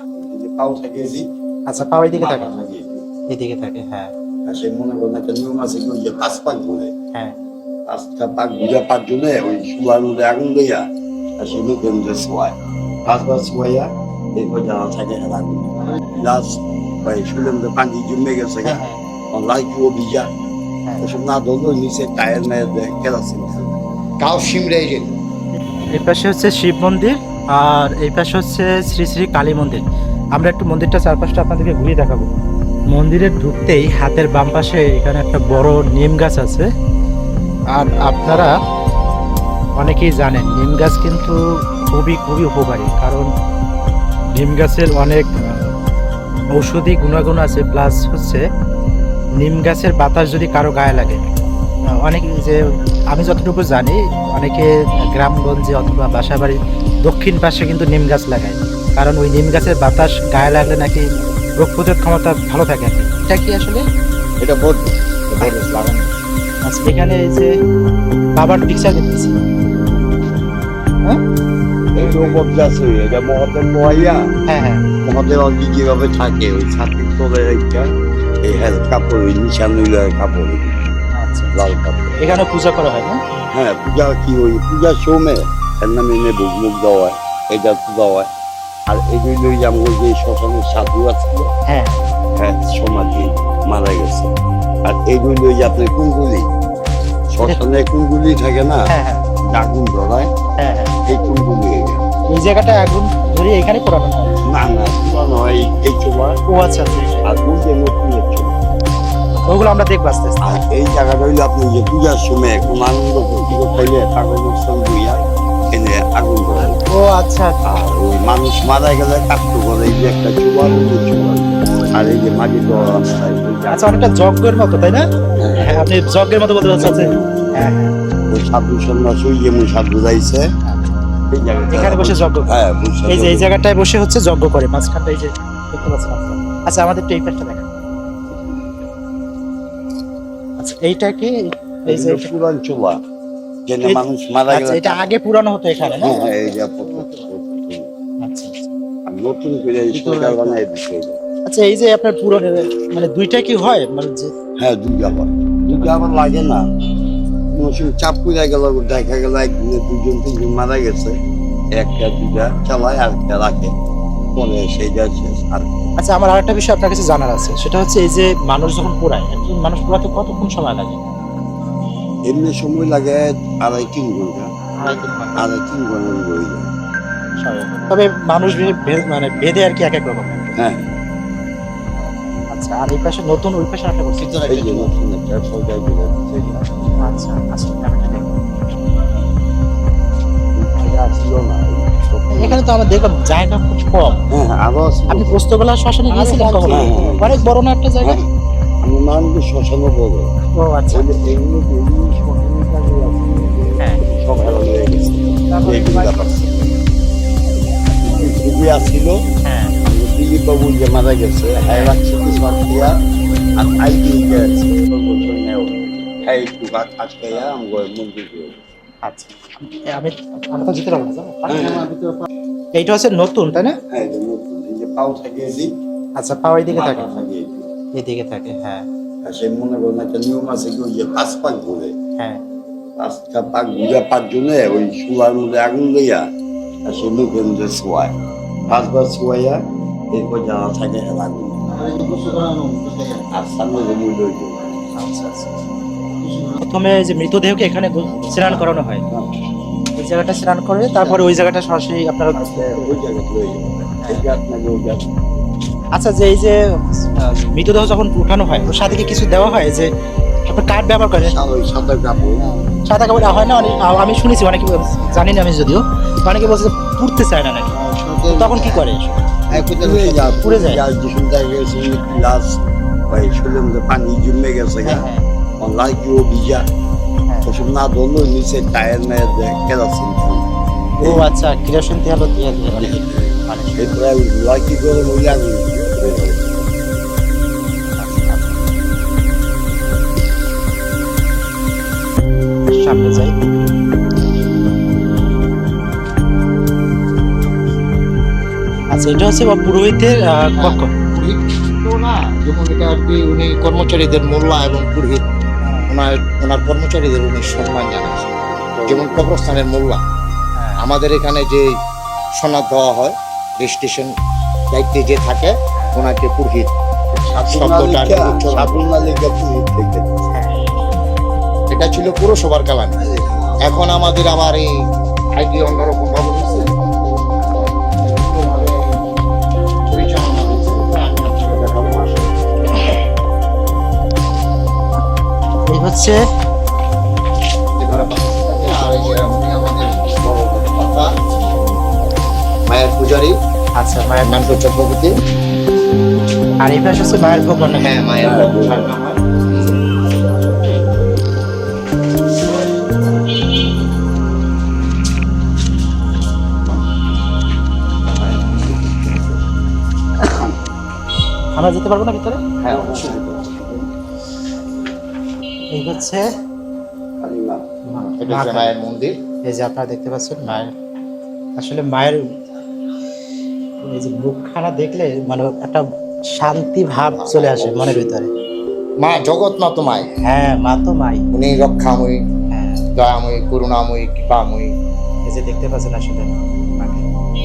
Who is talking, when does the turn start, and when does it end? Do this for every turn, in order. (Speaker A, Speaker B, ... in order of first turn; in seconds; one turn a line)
Speaker A: 0.2-1.2
Speaker B: 1.7-2.5
Speaker A: 2.1-3.0
Speaker B: 3.3-4.1
Speaker A: 4.5-6.9
Speaker A: 7.9-10.8
Speaker A: 11.4-18.8
Speaker B: 18.6-19.0
Speaker A: 19.3-20.3
Speaker A: 21.0-23.8
Speaker C: 24.2-25.1
Speaker B: 25.9-29.8
Speaker B: 30.3-32.3
Speaker B: 32.9-36.6
Speaker B: 37.7-38.5
Speaker B: 39.8-43.3
Speaker B: 44.3-45.7
Speaker B: 46.5-48.4
Speaker B: 49.4-51.2
Speaker B: 51.9-52.6
Speaker B: 53.1-63.8
Speaker A: 64.4-66.2
Speaker B: 66.6-67.5
Speaker B: 68.4-69.3
Speaker A: 71.9-74.2
Speaker C: 72.0-72.4
Speaker B: 74.5-74.8
Speaker A: 75.0-77.9
Speaker A: 78.4-80.8
Speaker B: 81.1-81.6
Speaker A: 81.5-82.2
Speaker B: 82.2-83.2
Speaker A: 83.5-88.3
Speaker A: 88.9-91.5
Speaker B: 91.7-92.0
Speaker A: 92.3-94.3
Speaker A: 94.8-96.5
Speaker A: 97.3-98.8
Speaker B: 98.9-99.2
Speaker A: 99.4-100.3
Speaker B: 100.6-100.9
Speaker A: 101.1-102.0
Speaker B: 102.3-104.3
Speaker A: 104.5-106.4
Speaker B: 106.5-107.2
Speaker A: 107.2-108.5
Speaker B: 109.5-110.6
Speaker A: 110.4-116.8
Speaker B: 116.9-117.5
Speaker A: 117.7-124.0
Speaker B: 123.7-125.0
Speaker A: 125.4-125.7
Speaker B: 125.6-127.9
Speaker A: 126.8-127.5
Speaker A: 128.3-130.5
Speaker A: 131.3-133.5
Speaker B: 131.7-132.5
Speaker B: 133.1-137.7
Speaker B: 140.6-142.3
Speaker A: 141.8-143.0
Speaker A: 143.7-145.1
Speaker B: 143.8-146.2
Speaker A: 145.8-147.9
Speaker C: 146.0-147.2
Speaker B: 148.2-148.7
Speaker A: 149.1-151.2
Speaker C: 150.0-150.6
Speaker B: 151.4-154.3
Speaker A: 154.6-156.6
Speaker B: 155.8-156.3
Speaker A: 157.5-161.2
Speaker A: 161.8-163.7
Speaker A: 164.3-165.7
Speaker B: 166.0-171.0
Speaker A: 172.3-174.5
Speaker B: 174.8-175.4
Speaker C: 174.8-175.4
Speaker A: 175.3-176.7
Speaker B: 177.4-180.5
Speaker A: 180.6-180.9
Speaker B: 182.5-184.4
Speaker A: 184.4-186.9
Speaker C: 184.6-184.9
Speaker B: 187.0-188.2
Speaker A: 190.6-192.6
Speaker B: 192.3-194.2
Speaker A: 194.3-195.4
Speaker B: 195.1-198.2
Speaker C: 196.3-197.1
Speaker A: 196.7-197.5
Speaker A: 198.8-200.3
Speaker B: 200.6-201.1
Speaker A: 200.9-206.4
Speaker B: 205.5-206.7
Speaker A: 208.0-209.2
Speaker B: 209.4-209.7
Speaker A: 209.8-212.9
Speaker B: 211.7-211.9
Speaker A: 213.6-218.6
Speaker B: 219.0-221.8
Speaker A: 221.5-222.0
Speaker B: 222.7-223.8
Speaker A: 223.9-225.7
Speaker B: 226.2-227.1
Speaker A: 226.7-227.7
Speaker B: 227.9-228.8
Speaker A: 229.2-231.9
Speaker A: 233.0-236.2
Speaker A: 236.8-238.1
Speaker A: 238.7-239.6
Speaker A: 240.1-241.7
Speaker C: 241.9-243.1
Speaker A: 243.3-244.8
Speaker B: 244.9-245.5
Speaker B: 246.6-249.0
Speaker C: 248.1-248.7
Speaker B: 249.9-253.0
Speaker A: 252.3-255.1
Speaker B: 255.9-259.9
Speaker B: 260.4-261.4
Speaker A: 261.2-262.5
Speaker B: 262.9-267.7
Speaker A: 267.8-268.7
Speaker B: 268.3-269.2
Speaker C: 268.4-268.8
Speaker A: 269.5-275.1
Speaker C: 269.5-270.4
Speaker B: 270.3-270.8
Speaker B: 274.8-275.2
Speaker A: 275.6-276.6
Speaker A: 277.4-280.5
Speaker B: 281.0-282.9
Speaker A: 281.0-281.3
Speaker A: 282.7-286.5
Speaker B: 283.5-284.0
Speaker B: 288.0-288.5
Speaker B: 292.7-293.7
Speaker B: 298.9-300.9
Speaker C: 300.5-305.2
Speaker B: 305.6-305.9
Speaker C: 305.9-308.3
Speaker A: 308.5-309.3
Speaker C: 308.9-310.0
Speaker B: 310.6-310.8
Speaker C: 310.8-311.6
Speaker C: 312.4-314.1
Speaker C: 314.7-316.7
Speaker B: 315.8-316.1
Speaker A: 317.1-320.2
Speaker C: 317.4-319.2
Speaker B: 320.3-320.6
Speaker C: 321.7-323.0
Speaker C: 323.6-324.7
Speaker C: 325.4-328.8
Speaker C: 329.9-332.3
Speaker B: 335.6-336.2
Speaker C: 337.8-341.1
Speaker C: 342.7-343.3
Speaker B: 343.8-344.5
Speaker C: 344.2-345.1
Speaker B: 346.6-347.9
Speaker C: 347.8-349.8
Speaker A: 348.2-348.9
Speaker C: 358.1-359.3
Speaker B: 361.6-362.4
Speaker C: 362.6-363.1
Speaker A: 362.6-363.9
Speaker B: 365.7-366.2
Speaker A: 367.2-367.6
Speaker B: 367.9-368.7
Speaker C: 368.1-369.1
Speaker B: 369.4-370.7
Speaker B: 371.6-372.2
Speaker B: 373.8-375.8
Speaker B: 376.4-378.3
Speaker C: 377.1-378.1
Speaker C: 379.0-380.1
Speaker B: 380.2-381.2
Speaker C: 381.3-382.2
Speaker B: 382.5-382.8
Speaker C: 382.9-384.7
Speaker B: 385.2-387.0